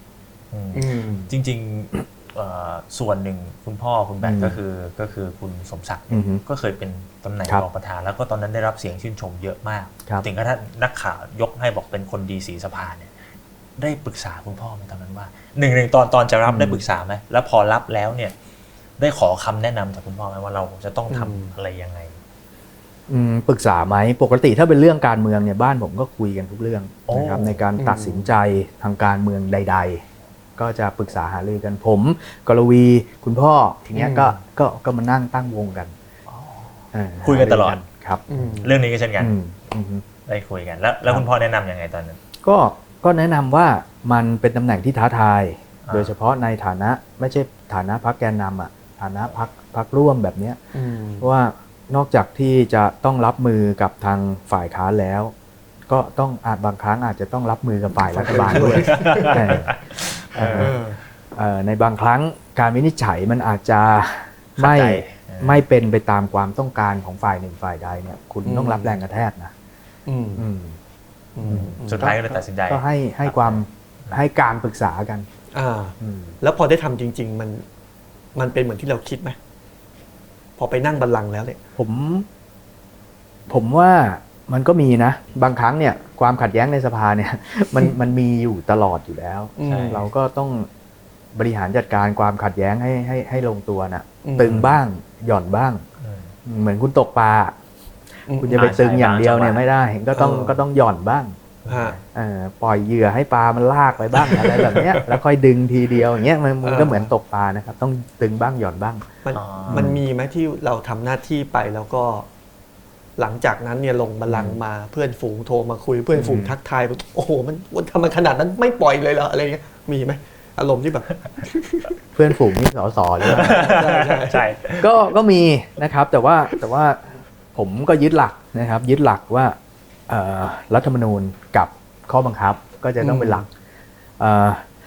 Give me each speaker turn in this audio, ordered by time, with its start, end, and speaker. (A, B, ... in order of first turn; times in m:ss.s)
0:00.5-0:13.1 A
0:00.7-0:01.3 B
0:04.2-0:04.6 C
0:06.1-0:06.4 C
0:13.8-0:18.3 A
0:16.5-0:16.8 C
0:19.0-0:22.2 A
0:21.1-0:21.5 B
0:23.1-0:30.0 C
0:27.1-0:27.6 A
0:27.8-0:28.3 B
0:30.6-0:35.9 C
0:33.9-0:34.3 B
0:36.3-0:37.8 A
0:36.9-0:38.4 C
0:38.3-0:38.8 B
0:38.6-0:39.3 A
0:39.2-0:40.0 C
0:40.3-0:42.2 A
0:42.4-0:50.6 C
0:45.8-0:46.1 A
0:50.7-0:51.3 B
0:51.2-0:55.3 C
0:55.9-0:59.7 C
0:58.1-0:59.5 B
0:58.6-1:00.8 A
1:00.4-1:00.8 C
1:00.5-1:01.0 B
1:01.3-1:09.5 C
1:04.6-1:05.6 A
1:08.4-1:09.0 B
1:10.1-1:10.5 B
1:10.4-1:10.8 C
1:11.3-1:12.4 B
1:11.4-1:15.3 C
1:11.8-1:14.2 A
1:15.5-1:17.6 B
1:16.0-1:16.4 C
1:18.3-1:19.4 B
1:20.6-1:21.6 B
1:21.8-1:22.3 C
1:23.5-1:30.7 C
1:29.6-1:30.1 B
1:29.6-1:30.1 A
1:31.3-1:35.8 C
1:34.2-1:34.6 B
1:34.5-1:34.8 A
1:36.0-1:36.3 A
1:36.5-1:37.5 C
1:38.3-1:38.6 B
1:38.4-1:41.4 C
1:38.5-1:39.6 A
1:40.1-1:40.6 B
1:41.6-1:42.0 A
1:41.7-1:42.0 B
1:42.1-1:49.1 C
1:44.1-1:45.2 B
1:46.6-1:47.1 B
1:49.2-1:52.3 B
1:49.3-1:49.9 A
1:49.7-1:50.0 C
1:53.2-2:02.0 B
1:54.3-1:54.6 C
1:56.2-1:56.5 C
2:02.2-2:03.6 C
2:03.2-2:04.9 A
2:03.2-2:04.5 B
2:04.8-2:07.0 C
2:07.5-2:09.6 C
2:10.1-2:13.5 C
2:13.0-2:13.5 B
2:14.2-2:14.7 C